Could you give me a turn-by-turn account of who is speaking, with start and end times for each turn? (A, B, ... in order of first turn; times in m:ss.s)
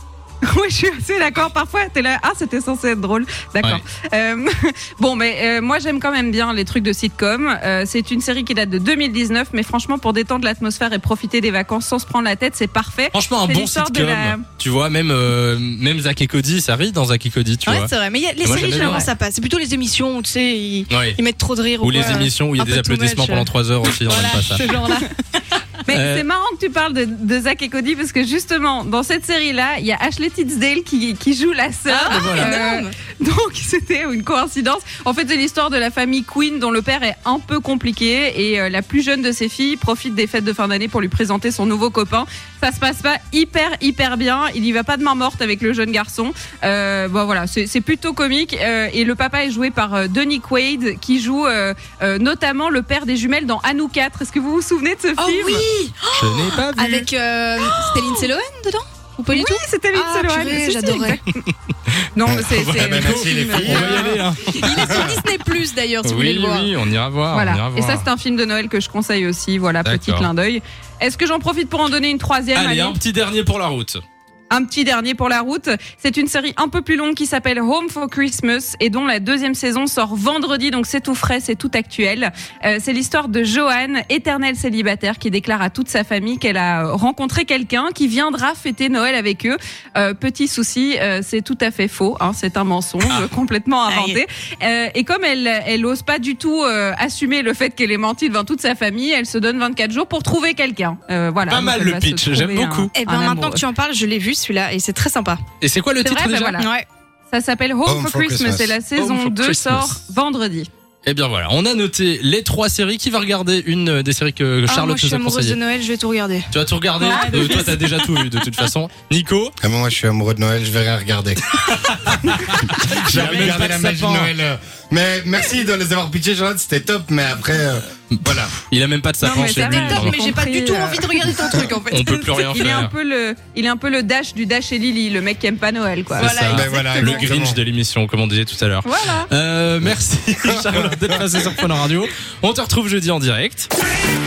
0:00.4-0:14.4 A
0:13.1-0:19.1 B
0:17.7-0:25.6 C
0:20.9-0:21.2 B
0:21.8-0:24.7 B
0:25.9-0:55.7 A
0:25.9-0:26.2 B
0:31.9-0:33.0 C
0:32.1-0:32.6 B
0:55.2-1:01.2 C
0:56.2-0:57.1 B
0:57.6-0:58.3 A
0:59.3-1:01.4 A
1:02.2-1:04.2 A
1:02.2-1:04.2 D
1:02.5-1:05.2 B
1:03.7-1:06.7 C
1:04.8-1:05.1 D
1:06.0-1:08.1 B
1:07.3-1:13.0 A
1:09.8-1:10.3 B
1:12.5-1:14.0 B
1:14.5-1:43.6 A
1:33.9-1:34.2 C
1:41.5-1:42.9 B
1:43.0-1:45.4 C
1:45.6-1:46.6 B
1:46.0-1:46.7 A
1:46.6-1:46.9 C
1:47.3-1:50.7 A
1:47.9-1:48.8 D
1:49.0-1:50.0 B
1:51.0-1:55.6 B
1:54.7-1:58.3 C
1:56.5-1:59.6 B
1:59.6-2:08.6 D
2:01.6-2:04.3 B
2:08.1-2:10.2 B
2:09.2-2:12.4 C
2:09.3-2:16.4 A
2:11.9-2:12.9 B
2:16.2-2:23.7 B
2:16.2-2:17.3 C
2:16.4-2:17.6 D
2:18.8-2:19.3 A
2:20.4-2:21.2 D